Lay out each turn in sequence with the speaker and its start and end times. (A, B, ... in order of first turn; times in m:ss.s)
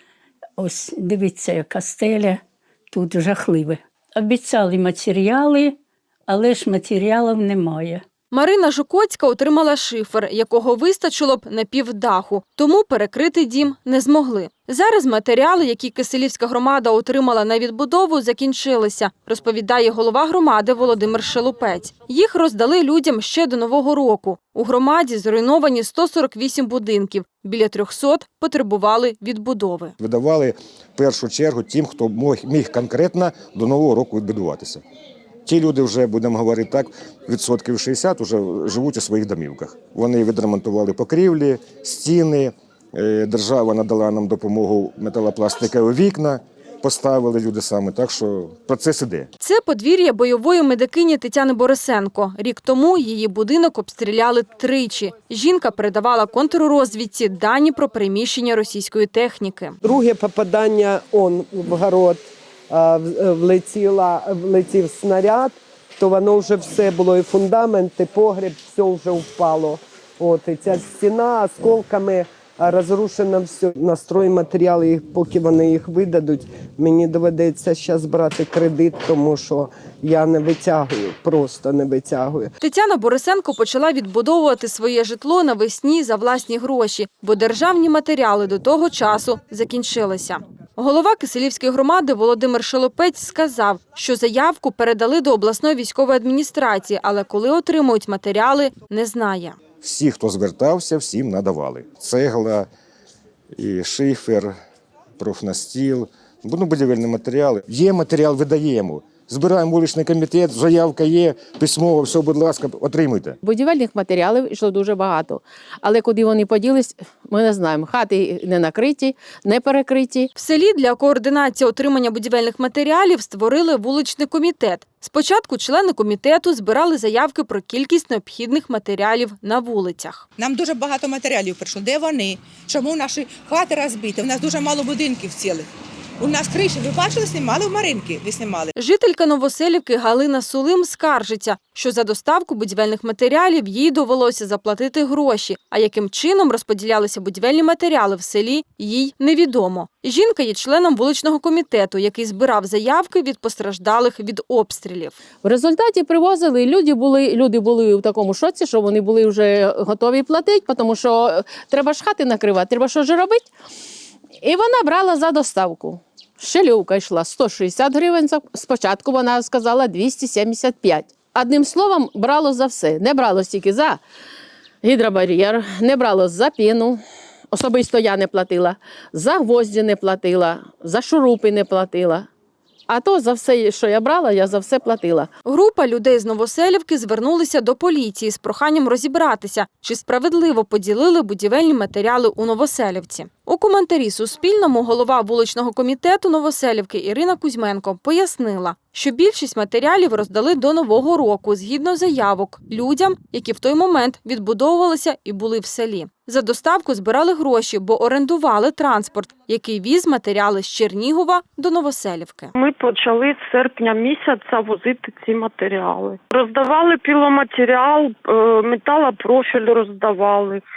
0:00.6-0:08.0 A
0:08.3-0:30.0 B
0:30.0-0:34.8 C
0:35.4-0:49.3 C
0:49.4-0:59.8 B
0:59.8-1:22.5 D
1:22.6-1:39.6 B
1:39.8-1:42.7 C
1:43.6-1:44.5 C
1:45.2-1:53.4 C
1:53.4-2:00.3 E
2:00.3-2:10.2 B
2:10.4-2:15.7 F
2:16.2-2:18.7 F
2:18.8-2:35.2 B
2:35.4-2:43.5 E
2:44.4-2:54.0 E
2:54.8-2:57.0 E
2:57.5-3:02.3 E
3:02.9-3:05.3 E
3:05.4-3:32.5 B
3:32.5-3:40.6 G